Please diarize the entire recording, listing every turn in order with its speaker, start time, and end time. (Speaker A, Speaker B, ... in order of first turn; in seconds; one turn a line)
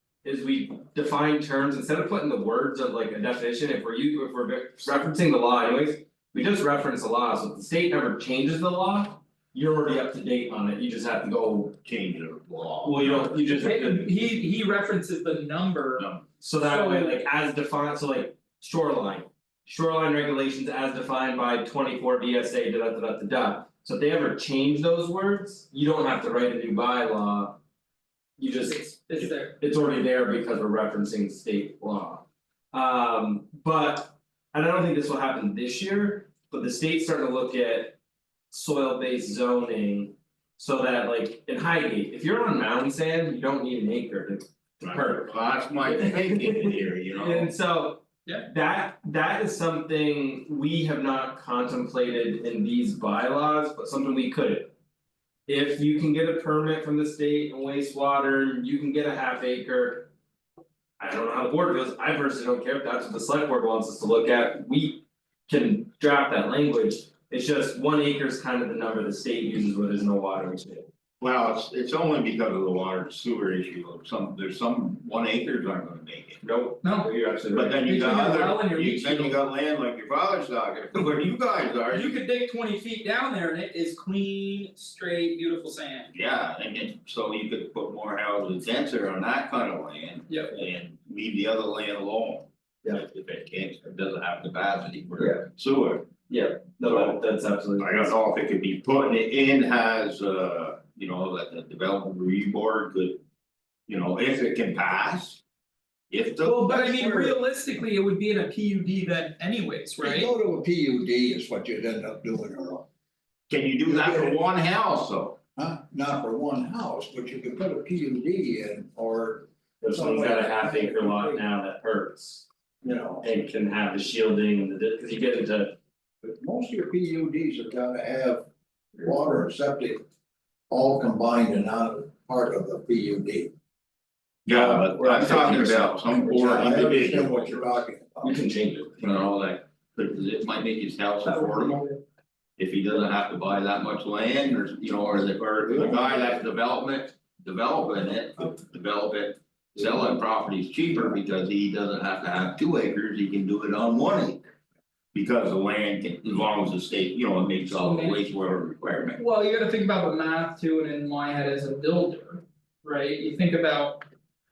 Speaker A: 0.2-11.8
Speaker B: 11.8-13.5
Speaker A: 12.8-14.1
Speaker C: 13.6-16.1
Speaker B: 16.0-16.2
Speaker A: 16.4-27.6
Speaker C: 16.6-17.2
Speaker A: 28.4-38.0
Speaker C: 28.6-29.6
Speaker A: 38.5-54.7
Speaker B: 44.8-47.5
Speaker A: 55.5-60.1
Speaker A: 61.0-70.9
Speaker B: 71.2-76.4
Speaker A: 76.4-77.9
Speaker C: 76.8-77.1
Speaker B: 77.5-82.2
Speaker C: 77.8-79.4
Speaker C: 81.9-86.1
Speaker B: 86.1-96.1
Speaker C: 90.3-90.6
Speaker A: 96.3-98.1
Speaker B: 96.8-97.2
Speaker B: 97.8-103.2
Speaker B: 103.9-105.4
Speaker B: 106.1-107.2
Speaker C: 106.4-110.3
Speaker D: 107.0-107.3
Speaker D: 110.0-112.8
Speaker B: 113.5-115.4
Speaker D: 113.9-114.4
Speaker D: 115.6-121.4
Speaker A: 119.8-122.5
Speaker D: 122.8-123.2
Speaker A: 123.2-125.8
Speaker D: 126.2-128.4
Speaker D: 129.0-130.0
Speaker D: 130.7-133.5
Speaker B: 134.4-137.7
Speaker D: 134.5-138.4
Speaker A: 138.2-139.1
Speaker B: 139.0-141.8
Speaker C: 141.2-142.0
Speaker B: 142.6-154.4
Speaker D: 145.8-146.2
Speaker B: 155.1-159.2
Speaker C: 157.8-158.2
Speaker C: 159.2-164.0